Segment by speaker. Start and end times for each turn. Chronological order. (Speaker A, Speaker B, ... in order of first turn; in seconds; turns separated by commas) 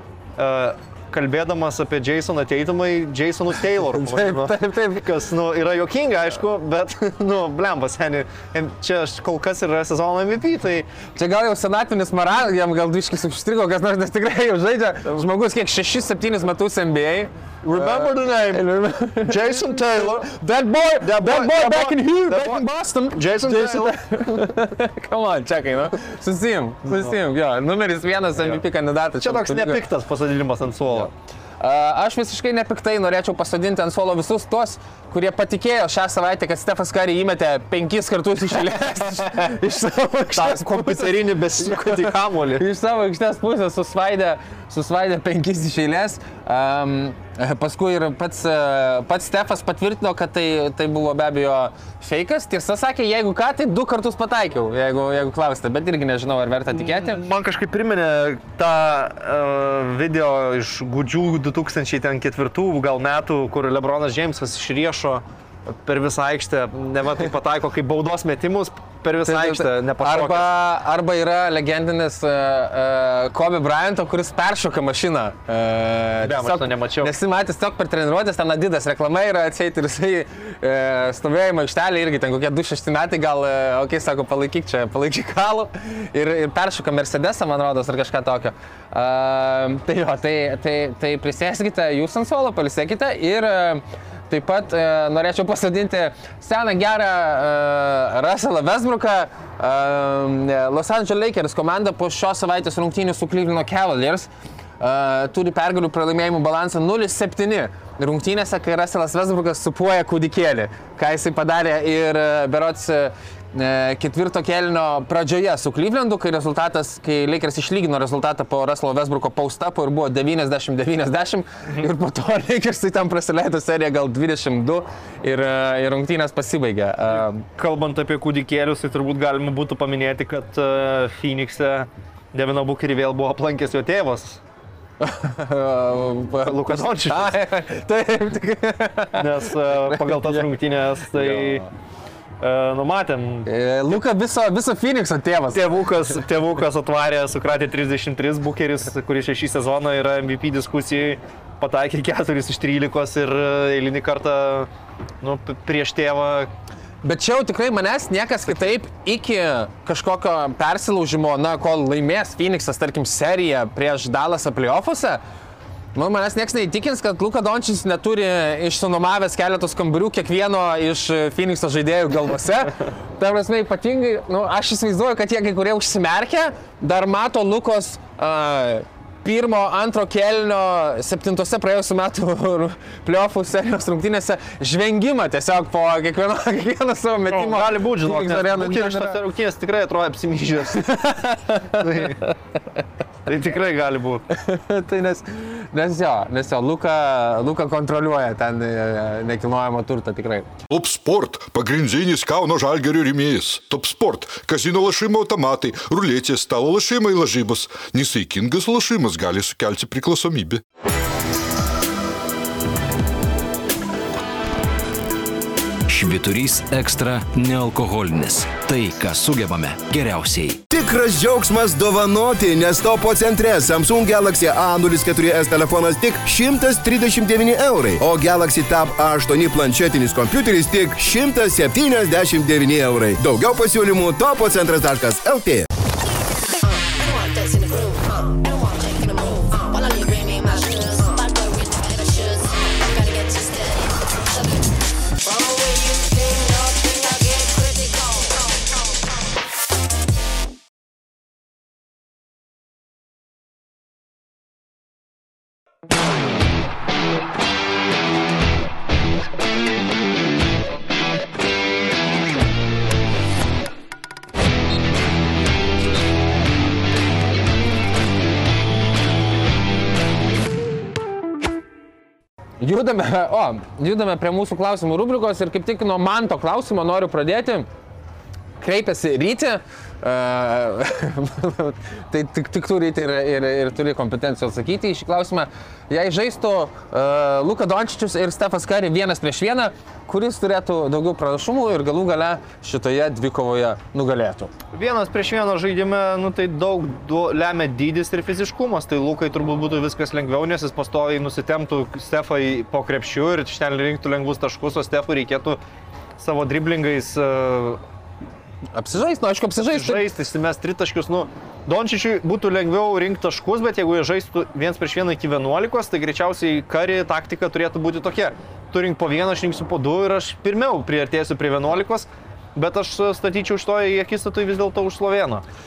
Speaker A: 0.4-10.9, Speaker B: 3.9-5.1, Speaker B: 11.2-29.8, Speaker A: 17.6-18.6, Speaker A: 19.2-20.3, Speaker A: 21.0-24.0, Speaker A: 29.2-31.1, Speaker B: 31.6-57.2, Speaker A: 40.3-42.6, Speaker A: 56.7-70.5, Speaker B: 69.3-104.3, Speaker A: 76.2-77.1, Speaker B: 104.8-127.5, Speaker A: 127.6-134.4, Speaker B: 135.0-140.4, Speaker A: 136.4-137.3, Speaker A: 139.2-141.6, Speaker B: 141.1-141.7, Speaker A: 142.4-143.5, Speaker B: 143.5-145.7, Speaker A: 145.5-154.7, Speaker A: 155.2-156.5, Speaker B: 157.0-165.2, Speaker B: 165.9-189.2, Speaker A: 187.3-190.9, Speaker B: 190.7-192.2, Speaker A: 191.7-192.2, Speaker A: 193.3-194.2, Speaker B: 194.3-200.5, Speaker C: 200.7-210.6, Speaker D: 215.9-220.6, Speaker E: 220.7-235.7, Speaker D: 236.6-244.6, Speaker D: 245.2-248.7, Speaker B: 272.6-277.7, Speaker B: 278.6-294.5, Speaker A: 294.7-305.6, Speaker A: 306.2-307.8, Speaker B: 308.8-310.1, Speaker A: 309.6-325.4